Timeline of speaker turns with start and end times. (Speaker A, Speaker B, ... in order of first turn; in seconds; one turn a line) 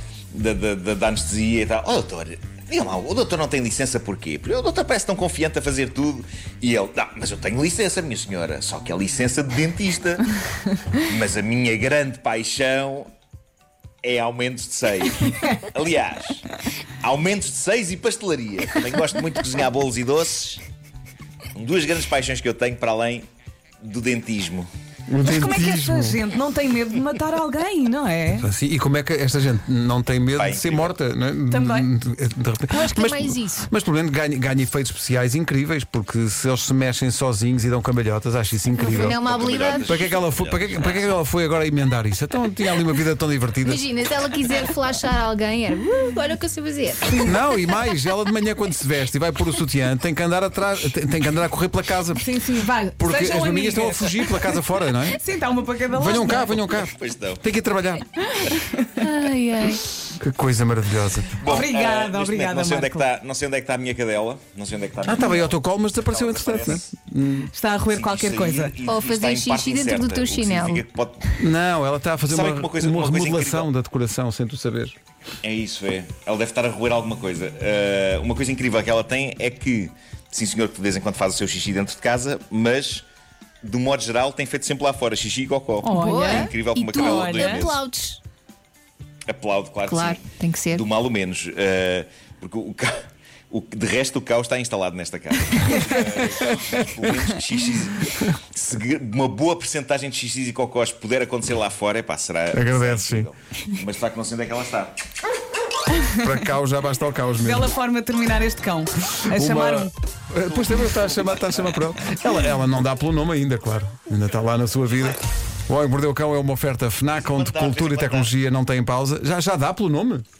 Speaker A: 0.3-10.2
Speaker A: 10.9-13.1
Speaker A: 14.0-16.4
Speaker A: 17.0-20.6
Speaker A: 21.6-23.3
Speaker A: 23.8-24.7
Speaker B: 25.1-26.2
Speaker C: 25.2-28.5
Speaker B: 28.4-39.2
Speaker A: 30.3-31.0
Speaker C: 31.5-31.9
Speaker D: 32.7-33.7
Speaker D: 38.8-40.1
Speaker A: 38.9-41.2
Speaker B: 39.7-43.8
Speaker D: 43.6-47.3
Speaker B: 47.2-52.2
Speaker C: 52.2-54.4
Speaker B: 53.0-55.2
Speaker C: 55.1-56.6
Speaker B: 55.9-58.1
Speaker A: 56.7-57.4
Speaker C: 58.3-58.9
Speaker D: 59.0-59.8
Speaker B: 60.1-61.4
Speaker A: 61.4-66.8
Speaker C: 61.4-63.1
Speaker B: 65.0-67.5
Speaker C: 67.5-68.8
Speaker A: 67.9-71.2
Speaker D: 68.8-70.8
Speaker B: 71.4-75.0
Speaker A: 72.3-73.7
Speaker A: 75.4-83.0
Speaker A: 83.6-87.8
Speaker C: 85.8-87.7
Speaker D: 85.9-88.2
Speaker A: 89.3-93.0
Speaker D: 89.8-90.8
Speaker A: 93.5-104.9
Speaker B: 102.5-103.3
Speaker B: 106.2-107.7
Speaker C: 107.4-109.9
Speaker B: 109.3-120.2
Speaker A: 110.5-111.8
Speaker A: 117.2-118.4